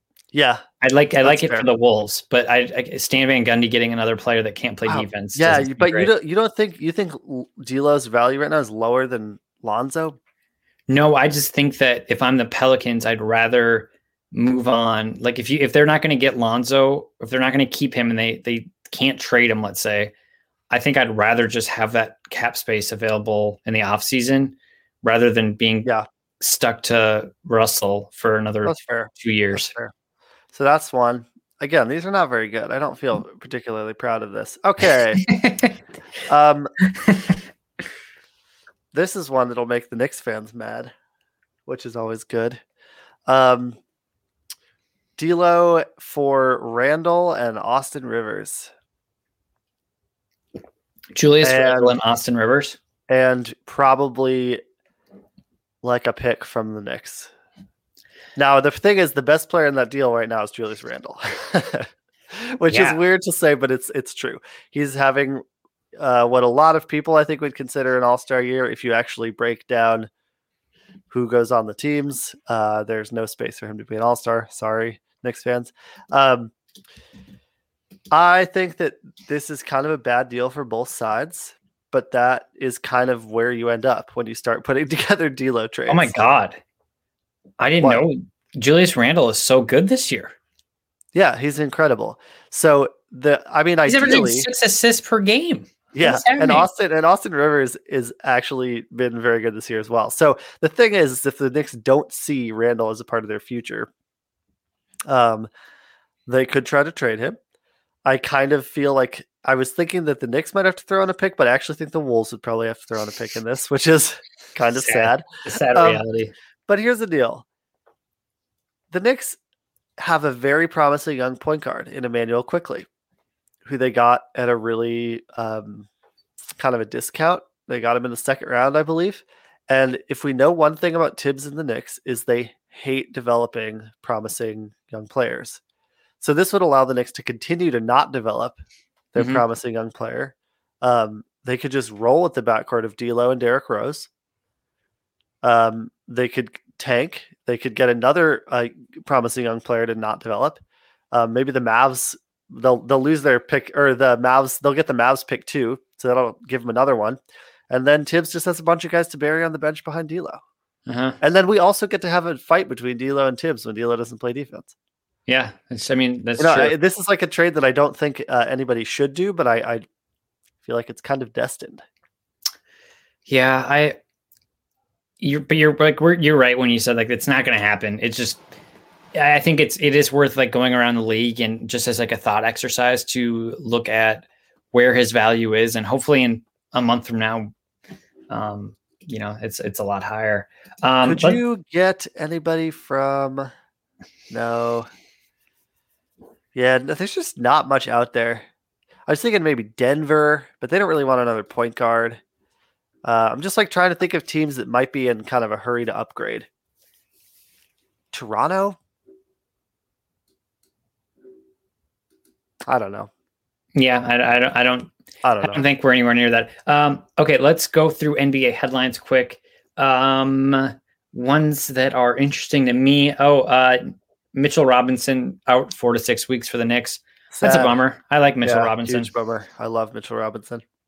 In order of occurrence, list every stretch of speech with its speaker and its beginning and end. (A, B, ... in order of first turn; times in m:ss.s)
0:00.3-0:00.6 A
0:00.8-0:06.1 B
0:01.2-0:01.7 A
0:04.8-0:10.2 A
0:10.9-0:20.1 B
0:20.7-0:29.7 B
0:28.6-0:29.9 A
0:30.5-0:35.2 A
0:35.3-0:35.7 B
0:36.3-0:36.7 A
0:37.1-0:37.3 B
0:38.9-0:40.9 A
0:41.7-0:42.6 A
0:43.2-0:43.8 A
0:45.2-0:48.7 A
0:51.1-0:52.8 B
0:51.4-0:52.0 A
0:53.1-0:54.6 A
0:55.8-0:57.3 A
0:58.4-1:05.4 A
1:02.7-1:03.0 B
1:06.0-1:10.1 A
1:11.1-1:16.5 A
1:18.1-1:26.1 A
1:25.9-1:26.6 B
1:27.6-1:30.3 B
1:31.1-1:34.5 A
1:33.8-1:36.7 B
1:35.9-1:43.9 A
1:45.1-1:45.5 A
1:46.3-1:47.4 A
1:48.0-1:56.0 A
1:54.8-1:56.3 B
1:56.7-1:57.4 A
1:58.9-1:59.4 A
2:00.0-2:02.9 A
2:03.6-2:05.9 A
2:06.6-2:15.6 A
2:16.2-2:18.6 A
2:19.1-2:24.1 A
2:19.2-2:19.4 B
2:25.4-2:30.6 A
2:31.1-2:37.2 A
2:37.7-2:40.4 A
2:40.9-2:41.2 B
2:41.2-2:44.7 A
2:45.3-2:46.8 B
2:46.4-2:49.8 A
2:50.6-2:51.8 A
2:53.3-2:54.0 B
2:55.2-2:58.4 B
2:59.1-3:07.5 B
3:08.3-3:11.4 B
3:11.0-3:13.5 A
3:14.3-3:14.9 A
3:16.5-3:18.5 A
3:19.1-3:22.2 A
3:23.0-3:26.5 A
3:28.1-3:28.8 A
3:32.6-3:33.1 A
3:33.7-3:34.9 B
3:35.2-3:35.6 A
3:35.4-3:49.1 B
3:47.3-3:47.7 A
3:48.4-3:50.6 A